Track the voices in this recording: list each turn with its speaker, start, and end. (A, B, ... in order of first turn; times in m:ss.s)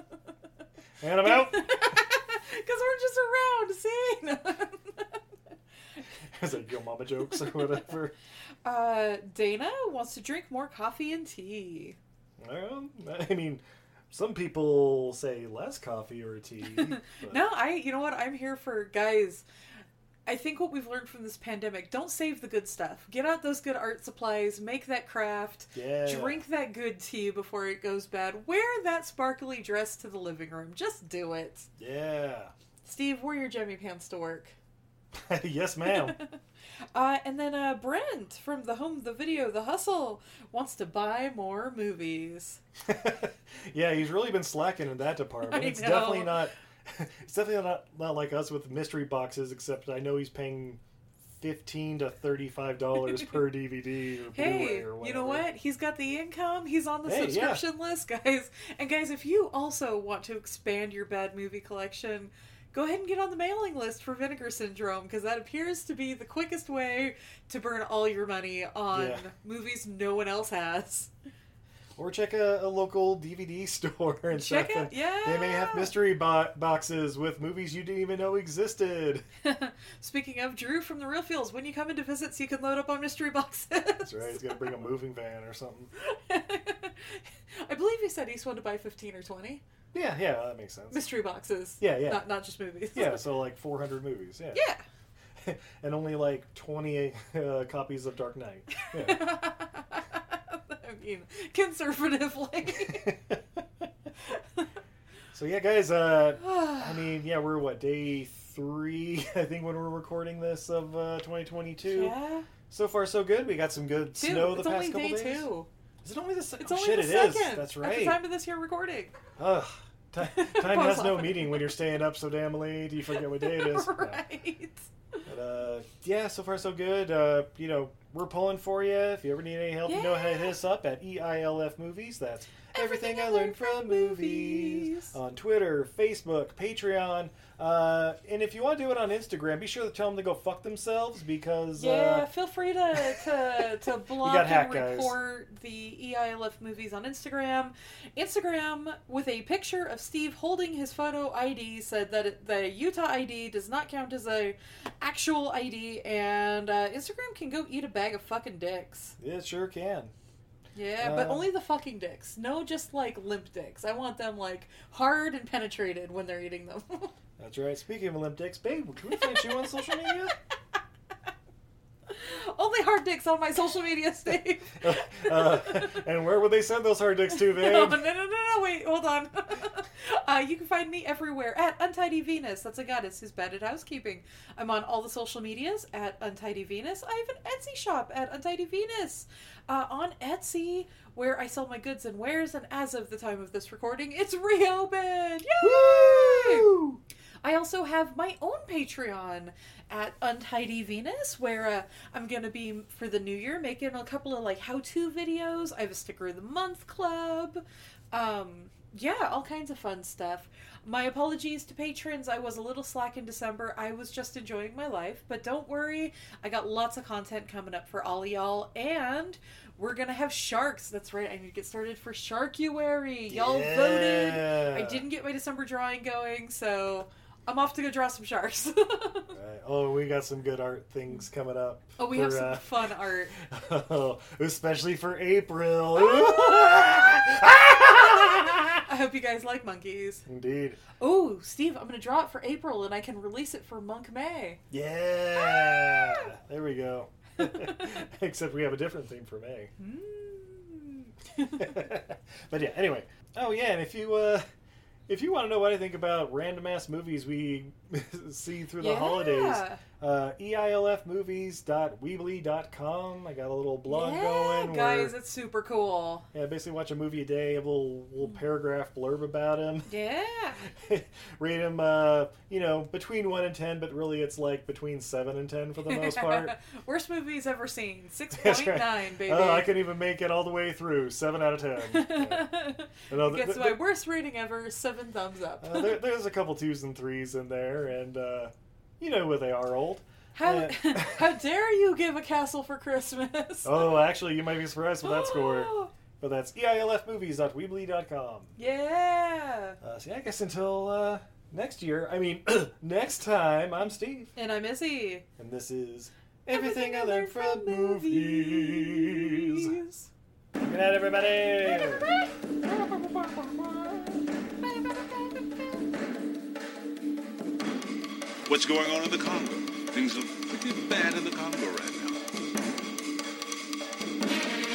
0:01.0-0:01.6 A
0:01.2-0:05.2 B
0:06.3-0:08.1 A
0:08.6-0:12.0 B
0:12.4-0:17.4 A
0:17.0-0:19.4 B
0:20.2-0:31.7 B
0:25.7-0:26.4 A
0:31.8-0:32.5 A
0:32.8-0:34.6 B
0:35.1-0:36.2 A
0:35.8-0:36.4 B
0:36.9-0:42.6 B
0:42.8-0:50.8 A
0:45.4-0:46.5 B
0:51.4-0:55.5 A
0:54.3-1:11.1 B
0:57.0-0:57.6 A
1:08.9-1:09.3 A
1:12.0-1:19.2 A
1:14.3-1:15.9 B
1:19.4-1:24.8 B
1:24.0-1:25.9 A
1:26.0-1:29.6 B
1:29.9-1:31.0 A
1:30.9-1:33.2 B
1:31.8-1:32.3 A
1:32.9-1:34.6 A
1:34.5-1:34.8 B
1:35.4-1:39.3 A
1:38.8-1:43.1 B
1:42.7-1:43.8 A
1:44.3-1:44.7 B
1:45.3-1:52.2 A
1:46.4-1:47.0 B
1:51.8-1:52.5 B
1:52.7-1:55.5 A
1:54.1-1:55.7 B
1:56.0-1:58.2 A
1:56.6-1:59.2 B
1:59.4-2:04.2 A
2:00.2-2:01.7 B
2:03.3-2:05.2 B
2:05.2-2:22.3 A
2:09.8-2:10.5 B
2:12.7-2:15.2 B
2:21.7-2:39.2 B
2:22.9-2:25.2 A
2:39.2-2:40.1 A
2:40.7-2:47.1 B
2:41.0-2:41.5 A
2:47.4-2:50.3 A
2:49.2-2:50.1 B
2:52.1-2:56.0 B
2:54.8-2:58.0 A
2:57.3-3:16.7 B
3:15.6-3:17.0 A
3:17.4-3:49.3 B
3:43.3-3:45.0 A
3:49.3-3:58.8 A
3:52.0-3:53.3 B
3:56.1-4:00.2 B
4:00.2-4:00.8 A
4:01.0-4:04.6 B
4:04.7-4:09.7 A
4:05.4-4:06.3 B
4:07.4-4:07.8 B
4:09.8-4:11.7 B
4:11.6-4:14.4 A
4:15.1-4:25.1 A
4:18.8-4:19.8 B
4:23.9-4:26.2 B
4:26.3-4:29.9 A
4:29.9-4:30.6 B
4:30.6-4:36.5 A
4:35.8-4:39.7 B
4:38.3-4:42.5 A
4:41.8-4:46.0 B
4:43.1-4:43.8 A
4:45.6-4:51.3 A
4:50.3-4:53.9 B
4:53.6-4:58.5 A
4:55.0-4:55.9 B
4:58.6-4:59.8 B
4:59.8-5:04.3 A
5:04.3-5:05.2 B
5:05.4-5:09.7 A
5:06.5-5:10.1 B
5:10.6-5:12.1 A
5:12.6-5:14.2 A
5:18.4-5:22.2 C